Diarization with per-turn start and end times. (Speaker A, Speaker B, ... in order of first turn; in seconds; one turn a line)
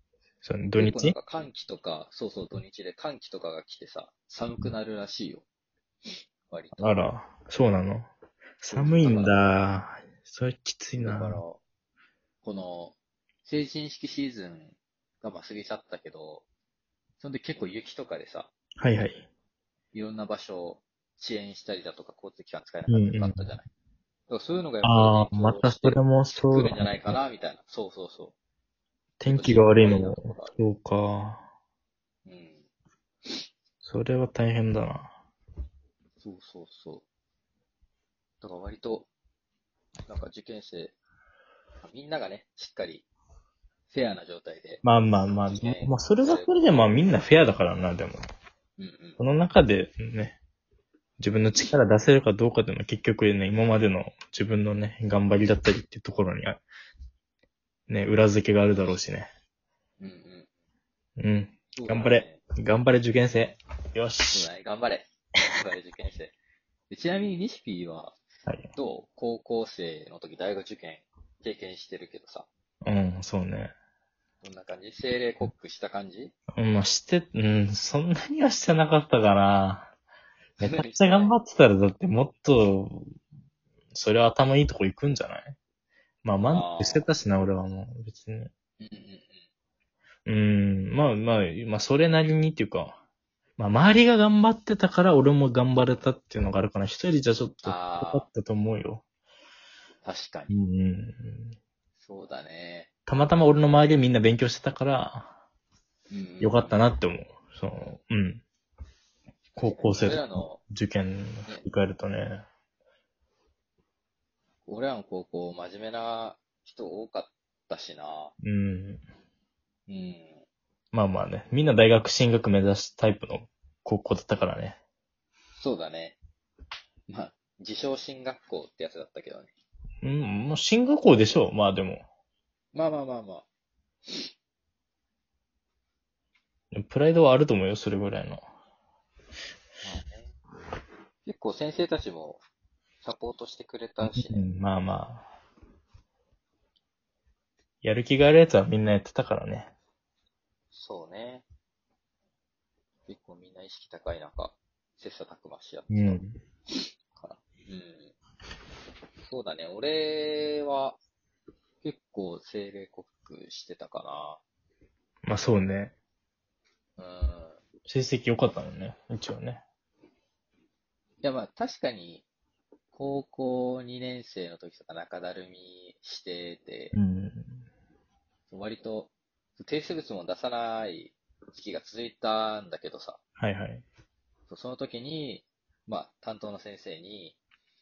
Speaker A: 0.4-1.1
Speaker B: 0.8-5.4
Speaker B: 6.5-7.0
Speaker A: 6.8-8.1
Speaker A: 8.6-11.4
Speaker B: 8.7-9.4
Speaker B: 11.0-11.6
Speaker B: 12.4-16.4
Speaker B: 17.2-18.5
Speaker A: 18.8-19.2
Speaker B: 19.9-23.7
Speaker A: 22.9-23.5
Speaker B: 24.3-28.3
Speaker A: 24.8-27.2
Speaker A: 29.2-31.4
Speaker B: 29.2-30.6
Speaker B: 32.2-32.6
Speaker A: 33.8-35.1
Speaker B: 36.2-37.0
Speaker B: 38.4-39.1
Speaker B: 40.1-41.0
Speaker B: 41.8-43.1
Speaker B: 43.9-44.8
Speaker A: 44.8-48.2
Speaker B: 45.5-46.5
Speaker B: 48.8-49.2
Speaker A: 49.2-50.4
Speaker A: 51.2-56.6
Speaker A: 57.9-59.3
Speaker B: 60.0-60.5
Speaker A: 61.2-64.5
Speaker B: 61.7-62.4
Speaker B: 64.3-66.3
Speaker B: 66.9-68.2
Speaker B: 68.7-72.5
Speaker A: 72.8-73.7
Speaker B: 74.4-76.3
Speaker A: 76.5-79.9
Speaker B: 80.6-81.3
Speaker A: 80.6-83.1
Speaker A: 83.9-85.5
Speaker A: 86.2-88.5
Speaker B: 86.4-87.1
Speaker B: 88.8-89.4
Speaker A: 90.2-93.0
Speaker A: 93.6-99.0
Speaker B: 97.6-98.2
Speaker B: 100.0-100.5
Speaker A: 100.5-101.5
Speaker B: 102.0-102.9
Speaker A: 103.1-105.3
Speaker B: 106.1-106.8
Speaker A: 106.4-108.4
Speaker A: 109.6-112.4
Speaker B: 109.6-110.6
Speaker B: 114.7-118.3
Speaker A: 118.4-119.0
Speaker B: 119.9-120.4
Speaker A: 120.9-124.8
Speaker B: 125.5-126.2
Speaker B: 127.1-129.5
Speaker A: 130.0-132.0
Speaker B: 132.7-133.5
Speaker A: 136.7-138.4
Speaker B: 139.8-140.3
Speaker B: 141.2-142.4
Speaker B: 143.0-144.5
Speaker A: 144.0-145.3
Speaker A: 147.8-149.7
Speaker B: 150.7-151.4
Speaker B: 153.1-156.2
Speaker A: 155.9-156.4
Speaker B: 157.1-158.1
Speaker B: 159.2-161.0
Speaker B: 161.8-164.4
Speaker A: 165.2-165.9
Speaker B: 167.0-167.6
Speaker A: 167.9-169.6
Speaker B: 171.2-172.2
Speaker B: 172.9-176.9
Speaker A: 176.9-177.6
Speaker B: 178.5-183.2
Speaker A: 183.4-183.8
Speaker B: 184.5-187.4